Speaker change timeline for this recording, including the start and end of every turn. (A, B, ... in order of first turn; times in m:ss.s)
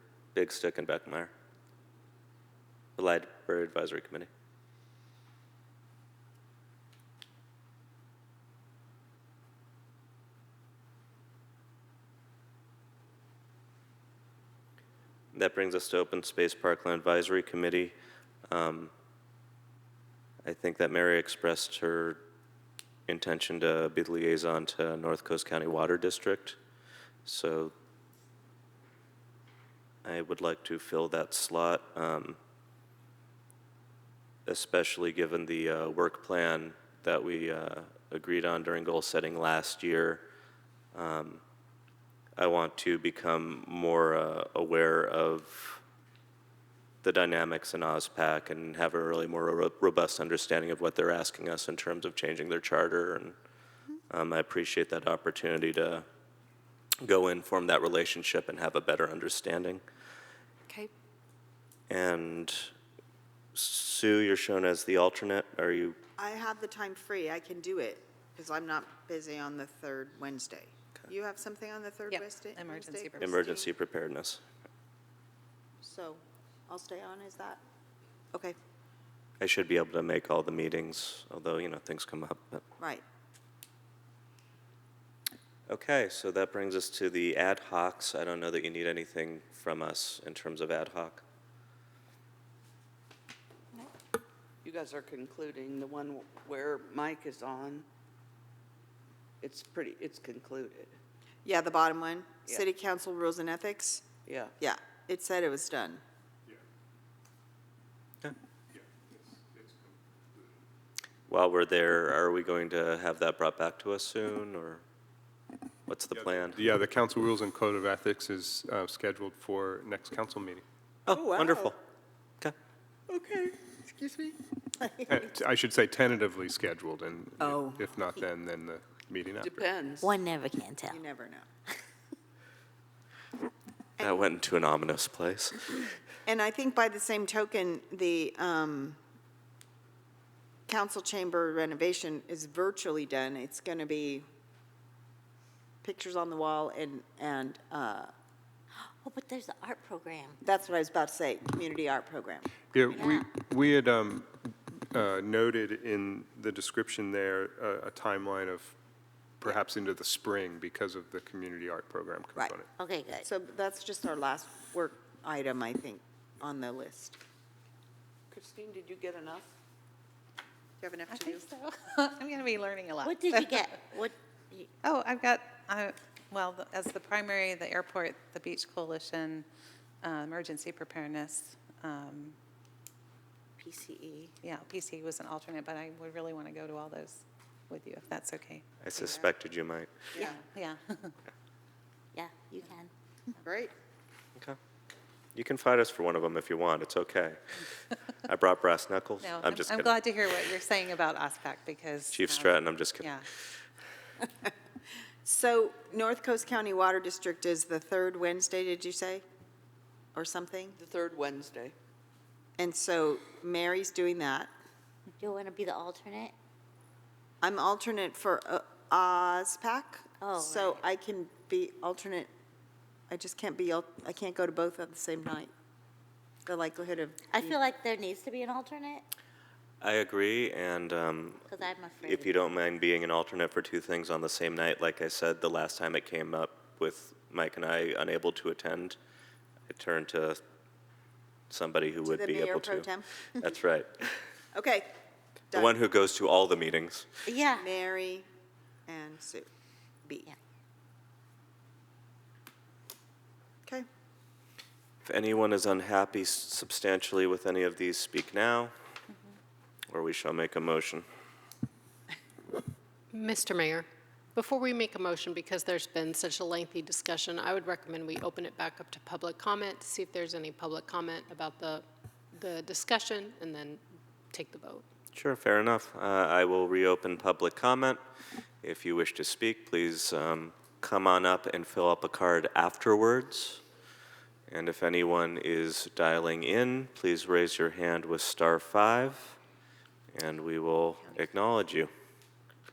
0:00.3-0:01.3 A
0:03.0-0:04.3 A
0:15.3-0:17.9 A
0:18.5-0:18.9 A
0:20.4-0:22.2 A
0:23.1-0:26.6 A
0:27.2-0:27.7 A
0:30.0-0:32.4 A
0:34.4-0:40.2 A
0:40.9-0:41.4 A
0:42.4-0:45.8 A
0:47.0-0:53.3 A
0:54.1-0:56.0 A
0:57.0-0:59.8 A
1:01.9-1:02.7 A
1:03.5-1:06.0 A
1:06.2-1:13.7 B
1:12.1-1:13.4 C
1:13.2-1:14.4 A
1:15.8-1:17.6 B
1:19.4-1:22.6 A
1:25.7-1:31.2 A
1:34.6-1:37.8 D
1:39.4-1:41.0 D
1:41.4-1:44.1 B
1:44.2-1:44.5 D
1:44.6-1:46.0 B
1:48.7-1:50.5 E
1:51.3-1:54.8 A
1:55.9-1:56.6 A
1:56.2-2:00.6 E
2:01.0-2:01.7 A
2:01.1-2:01.7 B
2:03.1-2:04.4 B
2:05.1-2:09.6 E
2:07.4-2:07.8 B
2:09.4-2:10.2 D
2:10.0-2:11.0 F
2:10.9-2:11.5 B
2:14.0-2:15.8 A
2:16.2-2:19.0 B
2:20.7-2:24.2 B
2:25.8-2:28.1 B
2:28.8-2:30.4 F
2:30.4-2:32.6 B
2:32.7-2:38.8 E
2:32.9-2:33.3 F
2:39.4-2:42.7 E
2:42.8-2:43.2 F
2:43.2-2:47.2 B
2:48.3-2:49.5 D
2:50.8-2:51.5 B
2:51.1-2:53.6 C
2:53.0-2:54.7 F
2:54.8-2:59.4 C
3:00.0-3:02.4 C
3:03.6-3:04.3 F
3:04.4-3:09.0 C
3:08.8-3:10.0 A
3:09.0-3:09.3 B
3:10.1-3:10.4 B
3:10.2-3:11.2 C
3:12.1-3:12.9 F
3:13.4-3:13.7 B
3:15.3-3:17.4 A
3:18.3-3:20.0 A
3:19.2-3:23.2 C
3:22.1-3:23.1 A
3:25.2-3:29.2 B
3:30.1-3:30.8 B
3:30.8-3:31.7 D
3:32.6-3:34.5 B
3:35.2-3:36.3 F
3:37.4-3:42.3 B
3:40.2-3:40.8 F
3:43.1-3:45.5 B
3:46.4-3:47.6 B
3:47.3-3:49.0 F
3:49.8-3:51.5 A
3:51.5-3:52.4 F
3:52.0-3:59.0 A
3:59.7-4:00.4 A
4:01.5-4:04.2 A
4:02.0-4:03.5 B
4:04.5-4:04.9 B
4:05.5-4:07.1 A
4:07.2-4:07.6 F
4:07.6-4:08.2 B
4:08.9-4:09.5 B
4:10.0-4:10.3 B
4:15.0-4:18.7 A
4:19.9-4:21.0 A
4:23.1-4:23.8 G
4:24.3-4:31.8 G
4:32.4-4:33.8 G
4:34.3-4:34.8 G
4:35.1-4:38.0 A
4:38.6-4:43.6 A
4:44.5-4:49.4 A
4:50.1-4:51.9 A